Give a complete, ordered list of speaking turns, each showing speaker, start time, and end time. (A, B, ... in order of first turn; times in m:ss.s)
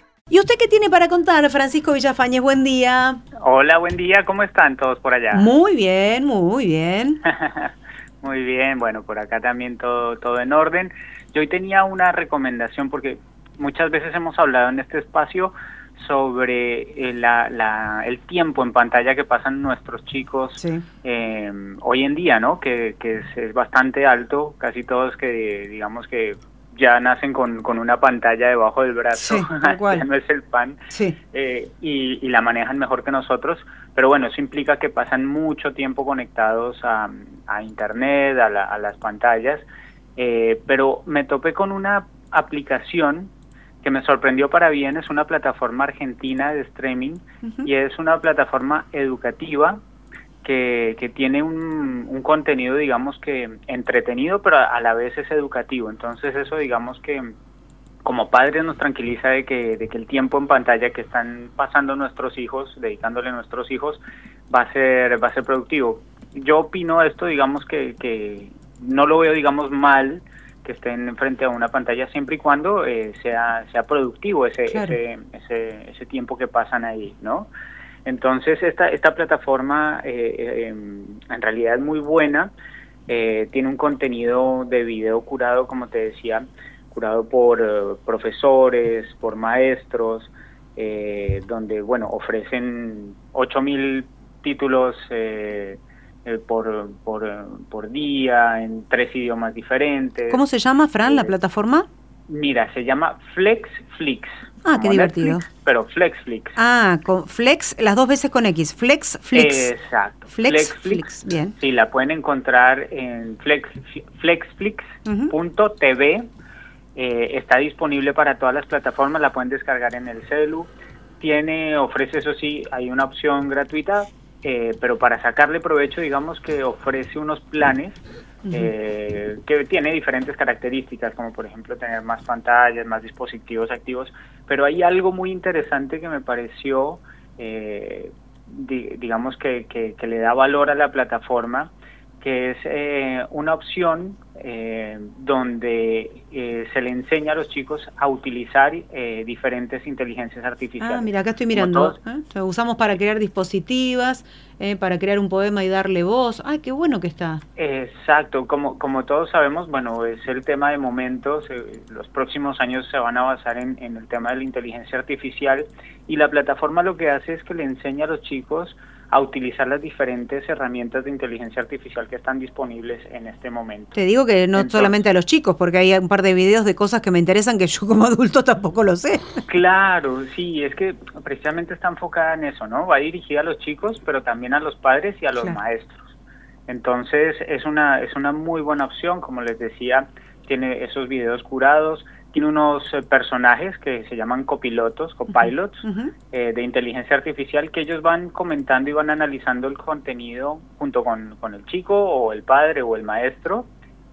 0:00.3-0:03.2 A
0:03.4-0:05.5 B
0:05.3-0:07.2 A
0:07.2-0:30.8 B
0:20.6-0:20.8 A
0:29.1-0:30.0 A
0:30.9-0:31.2 A
0:31.3-0:49.8 B
0:47.4-0:47.7 A
0:50.4-0:57.3 B
0:58.0-1:17.5 B
1:14.7-1:15.0 A
1:18.1-1:22.5 B
1:23.1-1:40.4 B
1:40.3-1:41.9 A
1:41.0-1:41.4 B
1:42.3-1:46.6 B
1:44.6-1:45.4 A
1:46.6-1:49.7 A
1:49.3-1:56.2 B
1:50.3-1:51.5 A
1:55.1-1:55.3 A
1:56.9-2:32.0 B
2:08.4-2:08.7 A
2:30.8-2:37.4 A
2:37.6-2:54.0 B
2:53.9-2:59.4 A
2:54.5-2:55.0 B
2:59.4-3:06.1 B
3:06.7-3:23.7 B
3:15.3-3:16.1 A